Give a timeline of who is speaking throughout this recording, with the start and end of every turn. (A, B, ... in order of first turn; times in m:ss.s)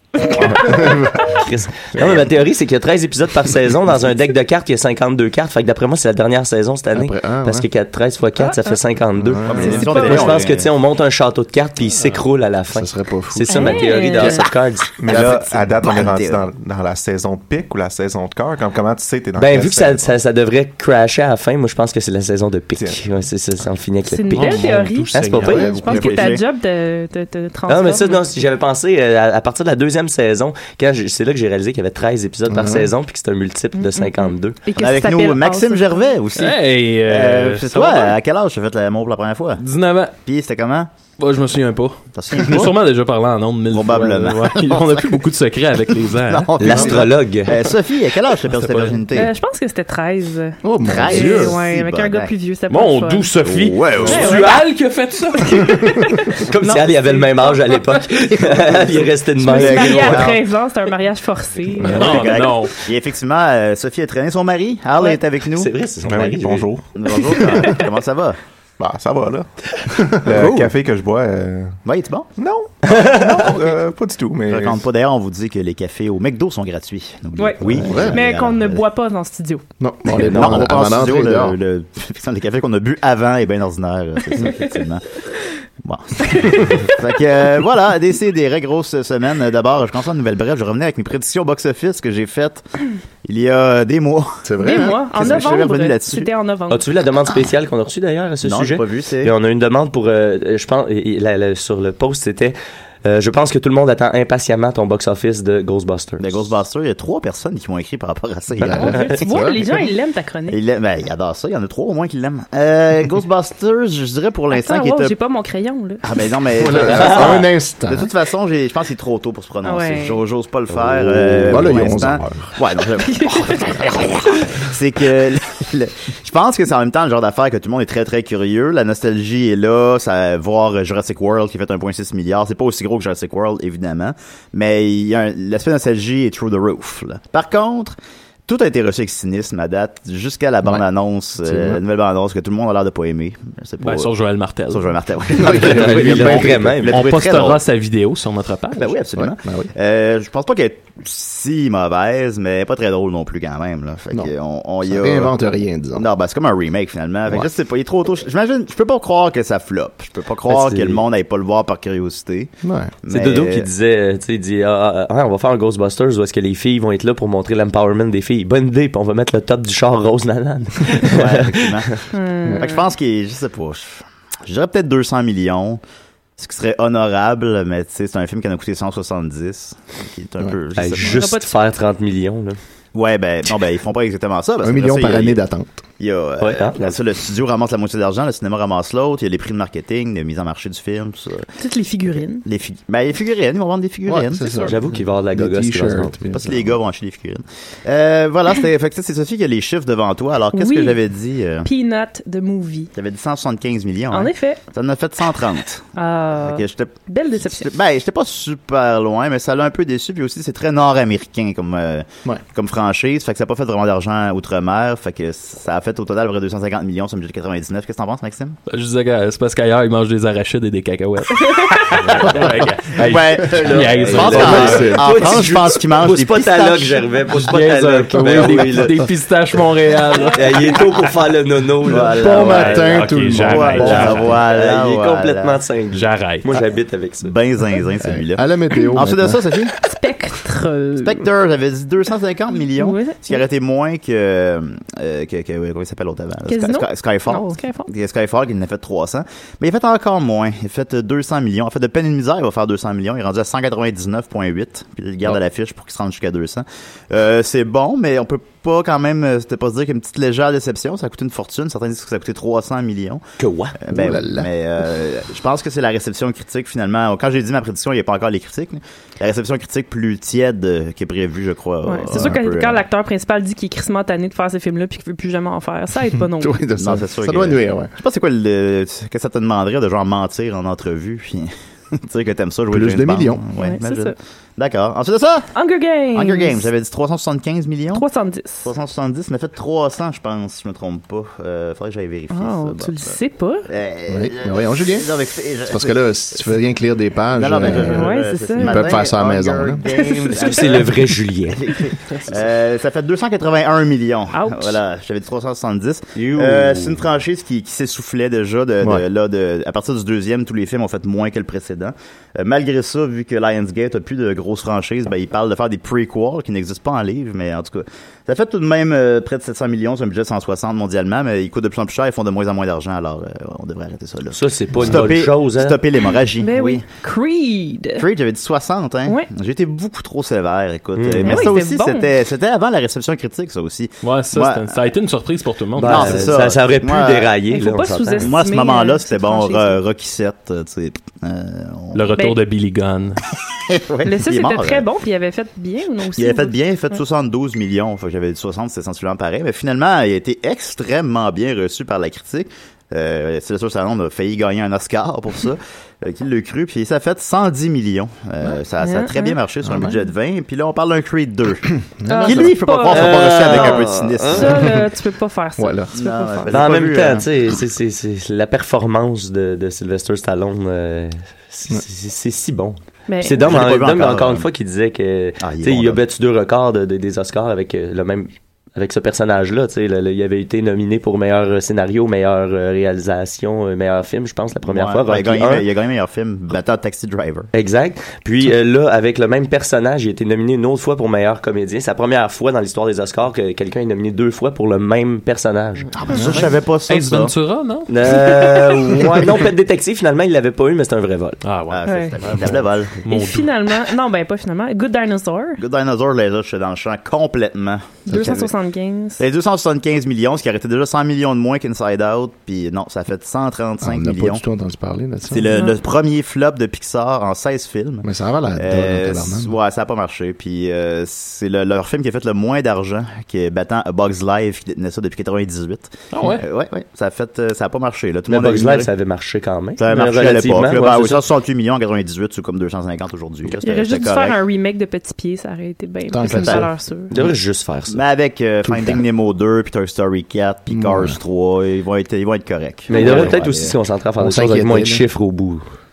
0:00.3-0:14.9 A
0:00.4-0:02.3 B
0:06.9-0:07.7 B
0:08.4-0:08.8 C
0:09.2-0:10.1 B
0:09.5-0:10.7 D
0:09.5-0:10.4 C
0:12.7-0:14.5 B
0:13.5-0:14.4 C
0:15.0-0:20.2 E
0:15.1-0:16.4 D
0:15.1-0:15.4 B
0:19.4-0:26.0 A
0:22.8-0:23.0 E
0:24.1-0:28.3 C
0:24.3-0:25.9 F
0:25.4-0:26.0 B
0:25.8-0:26.4 D
0:27.7-0:34.6 A
0:32.5-0:32.9 B
0:33.8-0:36.1 C
0:34.8-0:39.6 D
0:36.4-0:38.2 F
0:39.6-0:40.2 F
0:40.2-0:40.9 D
0:41.2-0:46.7 F
0:42.2-0:42.8 D
0:43.7-0:45.3 D
0:45.9-0:49.3 D
0:46.6-0:47.5 A
0:46.7-0:47.0 B
0:48.5-0:49.0 F
0:49.1-0:53.3 C
0:50.6-0:51.6 B
0:50.8-0:52.3 D
0:52.7-0:55.9 F
0:53.4-0:54.4 D
0:54.0-0:54.6 C
0:54.2-0:54.8 A
0:55.4-0:57.6 C
0:56.5-1:00.3 A
0:59.4-1:02.4 C
0:59.4-1:00.4 D
1:01.8-1:05.7 D
1:01.9-1:02.8 F
1:05.6-1:06.7 A
1:06.0-1:06.9 E
1:07.0-1:08.4 D
1:08.8-1:09.5 E
1:09.9-1:10.4 B
1:10.1-1:11.8 E
1:10.3-1:10.7 D
1:11.8-1:12.3 D
1:12.4-1:14.8 E
1:12.9-1:13.4 A
1:14.5-1:18.8 D
1:17.4-1:19.6 C
1:17.6-1:18.2 B
1:19.8-1:21.6 B
1:20.1-1:25.0 D
1:20.2-1:20.6 A
1:25.8-1:32.6 D
1:26.2-1:26.6 C
1:33.2-1:36.3 D
1:34.4-1:35.4 B
1:34.6-1:36.9 C
1:36.7-1:46.3 A
1:38.4-1:39.3 D
1:46.2-1:49.0 D
1:48.6-1:49.6 B
1:48.8-1:50.6 C
1:50.5-1:55.2 D
1:54.5-1:56.0 C
1:56.0-2:24.1 D
1:56.6-1:58.1 B
1:56.9-1:57.4 A
1:59.6-2:00.2 C
2:00.8-2:02.5 B
2:03.1-2:03.7 C
2:21.4-2:21.8 B
2:23.8-2:24.9 F
2:24.7-2:27.6 D
2:25.4-2:27.0 B
2:25.5-2:27.1 A
2:26.9-2:28.9 F
2:28.8-2:35.3 D
2:29.2-2:29.7 B
2:34.8-2:36.1 B
2:36.0-2:42.5 D
2:40.5-2:41.0 A
2:42.6-2:42.9 B
2:43.0-2:43.7 D
2:43.1-2:52.0 A
2:51.1-2:52.0 D
2:52.1-2:52.9 C
2:52.6-2:55.8 D
2:56.4-3:01.2 D
3:00.8-3:02.6 A
3:01.0-3:01.5 C
3:03.0-3:05.4 D
3:04.6-3:05.8 B
3:06.0-3:11.5 D
3:06.4-3:07.0 A
3:11.6-3:12.4 C
3:12.4-3:14.5 D
3:14.1-3:16.8 B
3:14.4-3:14.7 C
3:14.7-3:16.1 A
3:16.3-3:21.7 D
3:20.5-3:21.0 C
3:21.6-3:22.9 C
3:23.0-3:38.6 D
3:24.1-3:24.6 C
3:26.0-3:27.7 C
3:38.7-3:45.2 F
3:41.5-3:41.9 C
3:43.0-3:47.2 D
3:43.6-3:49.0 A
3:43.9-3:45.3 B
3:47.3-3:50.9 F
3:48.3-3:48.7 B
3:50.4-3:52.7 A
3:51.8-3:55.6 D
3:52.1-3:54.3 B
3:52.4-3:54.4 F
3:53.9-3:57.3 A
3:55.9-3:56.5 F
3:57.2-3:59.7 D
3:58.0-3:59.4 B
3:59.8-4:01.2 C
4:01.0-4:23.2 D
4:02.8-4:03.4 C
4:06.5-4:07.9 C
4:23.4-4:23.8 A
4:23.8-4:32.8 D
4:23.9-4:24.5 B
4:31.8-4:36.6 C
4:32.1-4:32.4 B
4:36.2-4:37.9 B
4:36.8-4:45.5 D
4:42.7-4:43.4 B
4:43.6-4:44.1 C
4:45.5-4:46.7 C
4:46.2-4:48.0 D
4:47.9-4:48.7 C
4:48.6-4:56.0 D
4:52.3-4:53.7 C
4:54.1-4:55.1 B
4:55.7-4:59.8 B
4:57.4-5:26.8 D
4:57.6-4:59.1 C
4:59.9-5:00.6 C
5:00.3-5:01.6 A
5:04.3-5:04.8 C
5:06.2-5:07.0 A
5:24.3-5:25.8 A
5:26.4-5:28.0 C
5:28.0-5:34.8 D
5:31.0-5:31.5 A
5:31.2-5:32.1 C
5:34.0-5:36.4 F
5:35.8-5:38.3 A
5:35.8-5:37.3 D
5:37.5-5:39.8 C
5:38.2-5:42.2 D
5:41.9-5:43.2 F
5:43.7-5:44.8 D
5:44.0-5:47.0 C
5:46.2-6:01.7 D
5:58.8-5:59.4 C
5:59.6-6:00.0 B
6:02.0-6:02.6 B
6:02.1-6:06.6 C
6:02.2-6:04.8 D
6:02.9-6:04.6 A
6:05.6-6:05.9 B
6:05.9-6:07.3 D
6:06.5-6:25.7 A
6:13.1-6:13.5 C
6:13.4-6:14.5 D
6:15.4-6:16.0 D
6:24.7-6:27.5 D
6:27.5-6:36.0 A
6:36.0-6:37.3 D
6:36.1-6:36.4 B
6:36.2-6:39.0 F
6:37.9-6:41.4 A
6:41.4-6:43.5 F
6:41.7-6:43.0 D
6:41.8-6:42.2 C
6:43.1-6:45.6 C
6:45.6-6:48.5 D
6:48.1-6:49.2 C
6:49.2-6:54.4 D
6:53.8-6:55.5 B
6:55.3-7:08.9 D
6:55.5-6:55.8 C
6:58.0-6:59.6 B
7:06.1-7:06.4 F
7:08.3-7:11.2 A
7:09.8-7:14.4 D
7:13.6-7:17.1 C
7:16.1-7:16.7 B
7:16.3-7:16.7 D
7:17.1-7:18.0 A
7:17.9-7:23.8 D
7:18.6-7:19.0 B
7:20.7-7:21.2 B
7:22.9-7:25.6 A
7:24.2-7:25.0 B